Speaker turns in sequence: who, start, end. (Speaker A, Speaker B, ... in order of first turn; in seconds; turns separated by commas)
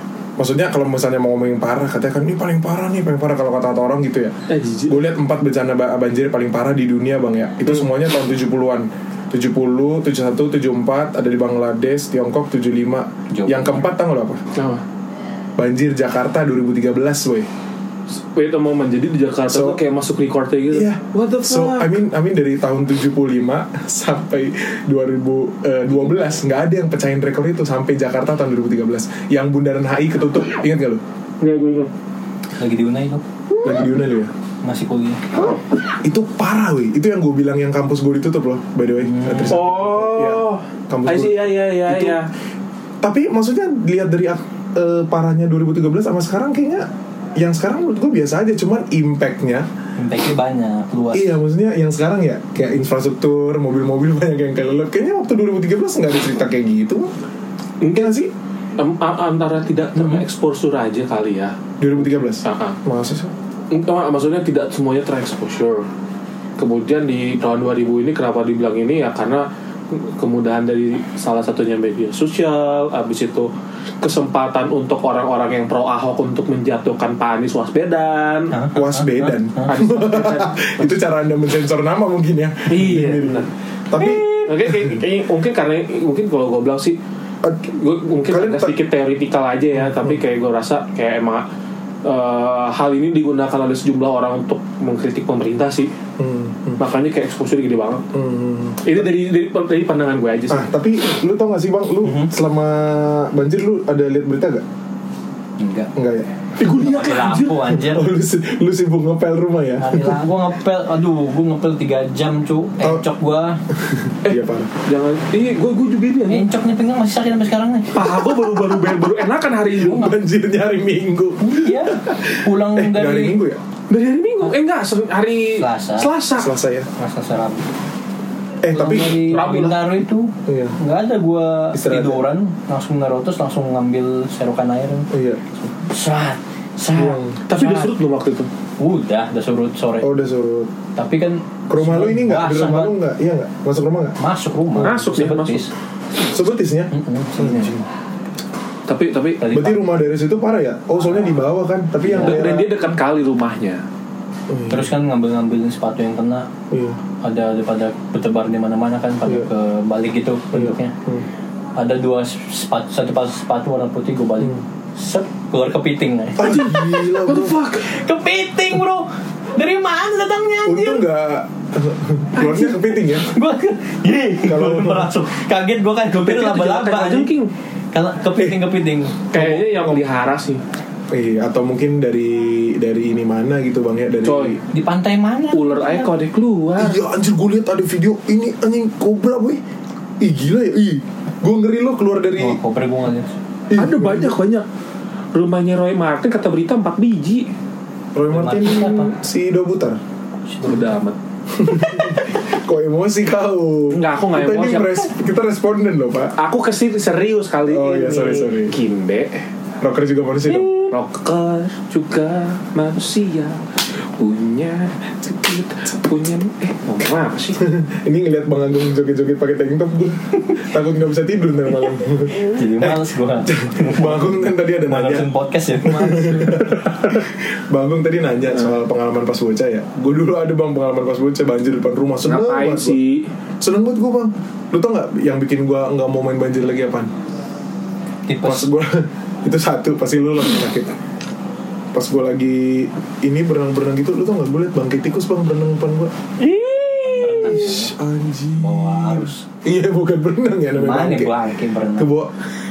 Speaker A: 0.4-14.4, Speaker B: 4.5-5.0, Speaker C: 13.3-13.8, Speaker B: 14.6-14.8, Speaker A: 15.6-17.5, Speaker B: 18.3-22.0, Speaker A: 19.5-19.8, Speaker A: 20.7-31.0, Speaker B: 31.4-31.9, Speaker C: 32.6-33.2, Speaker A: 33.6-34.3, Speaker C: 34.6-35.4, Speaker A: 36.0-42.2, Speaker C: 39.1-39.6, Speaker B: 39.5-42.3, Speaker A: 43.0-49.7, Speaker C: 50.0-51.4, Speaker A: 51.1-57.1, Speaker B: 57.8-62.8, Speaker A: 57.9-58.3, Speaker A: 61.8-63.3, Speaker B: 63.7-65.9, Speaker B: 66.6-78.6, Speaker C: 78.5-79.7, Speaker A: 78.7-85.0, Speaker B: 79.7-81.0, Speaker B: 82.7-87.0, Speaker A: 87.4-87.7, Speaker B: 87.7-91.5, Speaker A: 88.3-88.8, Speaker A: 89.8-90.2, Speaker B: 92.0-95.9, Speaker A: 96.2-96.8, Speaker B: 96.8-98.0, Speaker A: 98.1-99.1, Speaker B: 98.8-100.7, Speaker A: 100.5-104.6, Speaker C: 102.0-102.3, Speaker C: 105.6-105.9, Speaker A: 106.0-106.3, Speaker B: 106.6-107.7, Speaker C: 106.6-108.1, Speaker A: 107.7-110.2, Speaker C: 109.8-113.6, Speaker A: 113.8-114.7, Speaker B: 114.2-116.5, Speaker C: 116.3-118.1, Speaker B: 117.9-120.1, Speaker A: 119.8-123.6, Speaker C: 121.4-123.4, Speaker B: 123.9-126.5, Speaker C: 125.6-126.1, Speaker A: 126.4-126.9, Speaker C: 127.0-127.7, Speaker A: 128.6-129.3, Speaker C: 128.7-135.1, Speaker B: 129.3-129.9, Speaker A: 130.5-130.8, Speaker A: 131.7-132.3, Speaker A: 135.1-135.4, Speaker C: 135.6-137.9, Speaker A: 136.9-137.4, Speaker B: 137.5-138.5, Speaker C: 138.8-140.1, Speaker A: 140.0-140.7, Speaker C: 141.0-143.0, Speaker A: 141.7-144.2, Speaker C: 144.2-145.7, Speaker B: 144.8-145.7, Speaker A: 146.2-147.9, Speaker C: 146.9-147.7, Speaker B: 148.9-149.5, Speaker C: 149.4-149.8, Speaker A: 149.5-152.7, Speaker C: 152.0-152.5, Speaker B: 152.2-153.8, Speaker A: 154.5-154.9, Speaker C: 154.7-156.5, Speaker A: 156.7-157.0, Speaker C: 157.2-160.9, Speaker A: 160.5-161.3, Speaker C: 161.8-166.7, Speaker A: 166.4-167.6, Speaker B: 166.4-167.9, Speaker C: 167.8-171.1, Speaker A: 170.7-173.3, Speaker B: 172.4-172.8, Speaker C: 173.2-177.3, Speaker A: 174.4-175.1, Speaker B: 176.2-177.5, Speaker C: 177.9-179.3, Speaker A: 178.4-178.7, Speaker B: 179.3-180.6, Speaker A: 179.3-180.0, Speaker A: 181.1-184.6, Speaker B: 184.2-184.6, Speaker C: 184.7-186.1, Speaker B: 185.5-187.0, Speaker A: 186.8-189.6, Speaker A: 190.2-192.6, Speaker C: 192.4-193.3, Speaker A: 193.7-194.4, Speaker B: 193.7-194.7, Speaker B: 195.3-197.5, Speaker A: 198.2-200.0, Speaker C: 198.3-199.1, Speaker C: 200.5-201.0, Speaker B: 200.6-201.2, Speaker A: 201.5-206.3, Speaker B: 203.9-205.1, Speaker B: 206.4-209.5, Speaker A: 207.7-208.8, Speaker A: 209.8-210.8, Speaker B: 210.7-217.7, Speaker A: 217.6-225.3, Speaker C: 222.3-227.0, Speaker A: 225.8-233.0, Speaker B: 232.2-233.3, Speaker A: 233.6-237.1, Speaker C: 238.3-238.7, Speaker A: 238.4-241.0, Speaker A: 241.9-246.1, Speaker B: 246.4-247.8, Speaker C: 247.0-247.9, Speaker A: 247.4-251.4, Speaker C: 248.6-249.4, Speaker C: 250.8-252.1, Speaker A: 252.0-252.3